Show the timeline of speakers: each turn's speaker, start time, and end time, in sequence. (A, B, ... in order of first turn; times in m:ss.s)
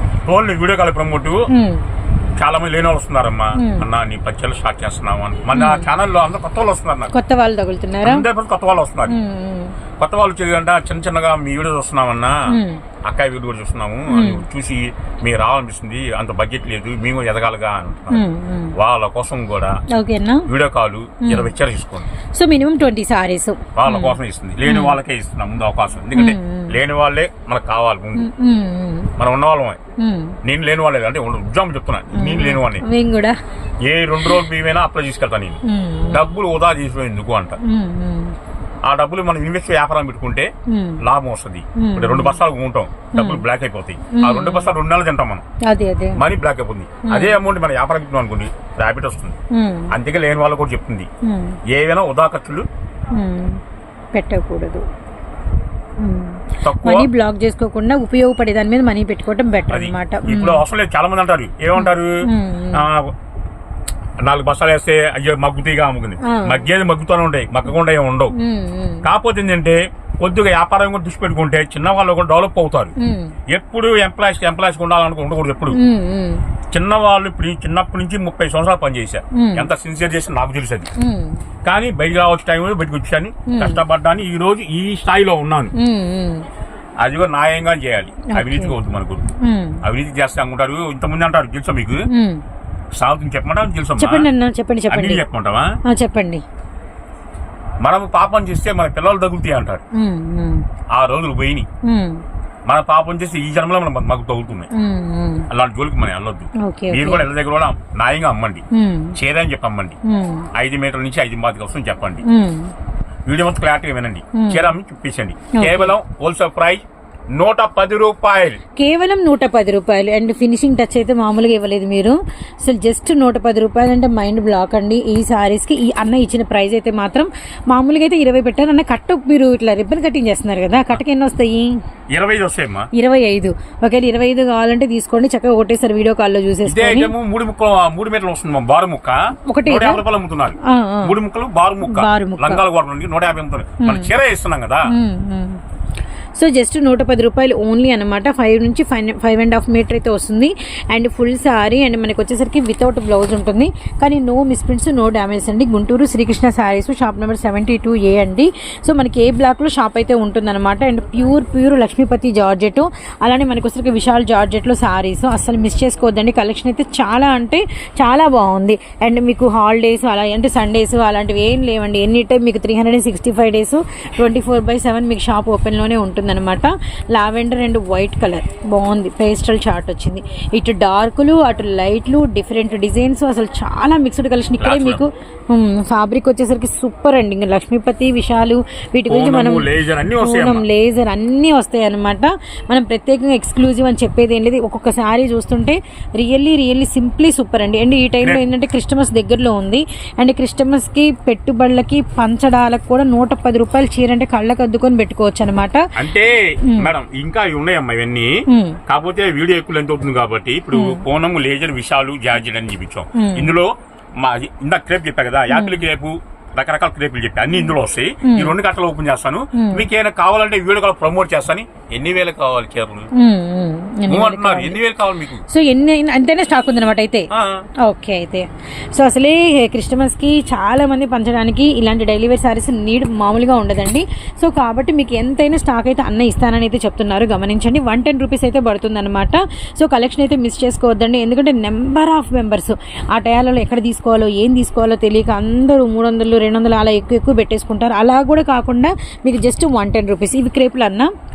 0:00.2-0:01.4 A
0:01.5-0:01.8 B
0:02.4-0:07.1 A
0:03.6-0:03.8 B
0:05.5-0:05.8 B
0:07.1-0:08.2 B
0:08.0-0:09.1 A
0:09.1-0:09.7 B
0:10.0-0:12.4 A
0:12.5-0:12.8 B
0:13.0-0:18.2 A
0:14.1-0:14.4 B
0:18.1-0:18.7 B
0:18.8-0:19.8 A
0:19.9-0:20.5 B
0:20.5-0:22.1 A
0:21.2-0:21.5 B
0:22.3-0:24.1 B
0:23.8-0:28.3 A
0:24.6-0:25.0 B
0:26.2-0:26.8 B
0:28.2-0:29.1 B
0:29.2-0:29.8 A
0:30.0-0:30.4 B
0:30.4-0:32.8 A
0:32.1-0:33.4 B
0:33.8-0:37.6 A
0:35.7-0:36.2 B
0:37.6-0:38.3 B
0:38.8-0:40.5 A
0:40.7-0:41.0 B
0:41.0-0:45.4 A
0:41.8-0:42.4 B
0:43.1-0:43.4 B
0:44.1-0:44.7 B
0:45.7-0:46.2 B
0:46.1-0:49.4 A
0:47.0-0:47.3 B
0:49.5-0:49.9 B
0:49.9-0:51.1 A
0:51.2-0:51.6 B
0:51.7-0:52.6 A
0:53.1-0:53.6 B
0:54.1-0:54.8 B
0:56.0-1:00.6 B
0:56.6-0:57.1 A
0:59.7-1:02.1 A
1:01.8-1:02.8 B
1:02.7-1:03.1 A
1:04.2-1:08.3 A
1:06.2-1:06.6 B
1:08.4-1:09.0 B
1:09.0-1:12.9 A
1:13.0-1:13.4 B
1:13.5-1:15.8 A
1:15.7-1:16.4 B
1:16.7-1:20.9 A
1:19.3-1:19.7 B
1:21.0-1:21.4 B
1:21.6-1:25.7 A
1:23.5-1:23.8 B
1:25.8-1:26.4 B
1:27.0-1:29.2 A
1:28.3-1:28.7 B
1:29.4-1:29.8 B
1:29.8-1:32.0 A
1:32.1-1:32.4 B
1:32.9-1:34.3 A
1:34.0-1:35.2 B
1:34.9-1:35.7 A
1:35.9-1:36.4 B
1:37.8-1:39.8 A
1:39.9-1:40.6 B
1:40.9-1:41.7 A
1:41.8-1:42.2 B
1:42.7-1:44.7 A
1:44.7-1:45.5 B
1:45.5-1:48.6 A
1:46.6-1:47.3 B
1:48.7-1:49.2 B
1:49.2-1:50.0 A
1:50.0-1:50.5 B
1:50.5-1:52.2 A
1:52.3-1:52.7 B
1:53.2-1:58.6 A
1:54.4-1:54.7 B
1:55.6-1:55.9 B
1:58.8-2:11.7 B
2:12.1-2:12.9 A
2:12.9-2:17.1 B
2:16.6-2:24.9 A
2:19.5-2:20.0 B
2:20.6-2:21.2 B
2:21.9-2:22.6 B
2:23.8-2:24.1 B
2:24.9-2:25.6 B
2:26.4-3:25.8 B
3:04.6-3:05.0 A
3:09.1-3:10.6 A
3:26.0-3:28.3 A
3:28.5-3:28.8 B
3:28.9-3:43.1 A
3:30.7-3:31.0 B
3:33.2-3:33.5 B
3:35.5-3:35.8 B
3:38.2-3:38.5 B
3:39.5-3:39.8 B
3:43.2-3:44.8 B
3:44.1-3:45.4 A
3:45.5-3:47.3 B
3:47.3-3:47.6 A
3:47.8-4:11.1 B